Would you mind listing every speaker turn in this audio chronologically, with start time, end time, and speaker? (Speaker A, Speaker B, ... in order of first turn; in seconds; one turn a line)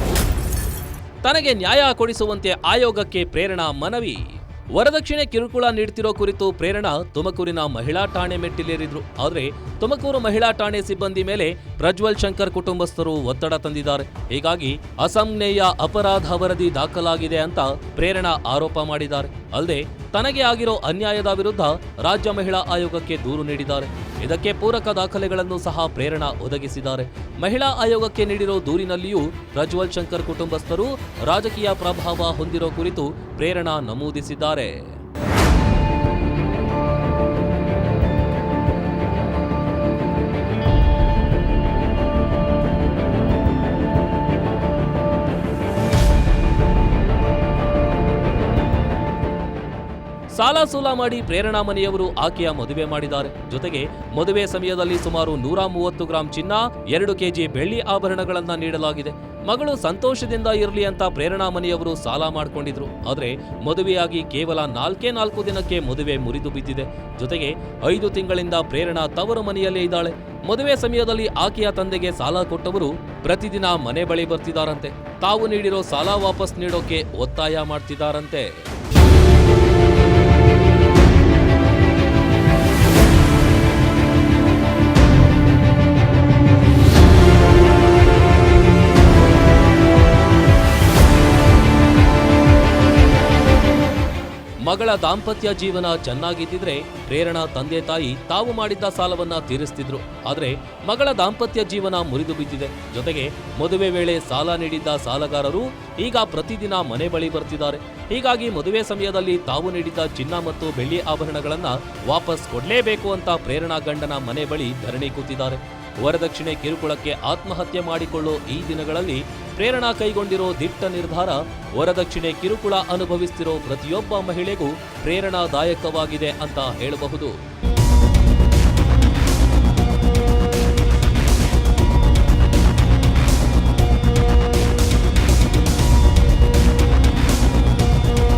Speaker A: 1.2-34.8
Speaker A: 50.4-78.5
Speaker A: 94.7-127.3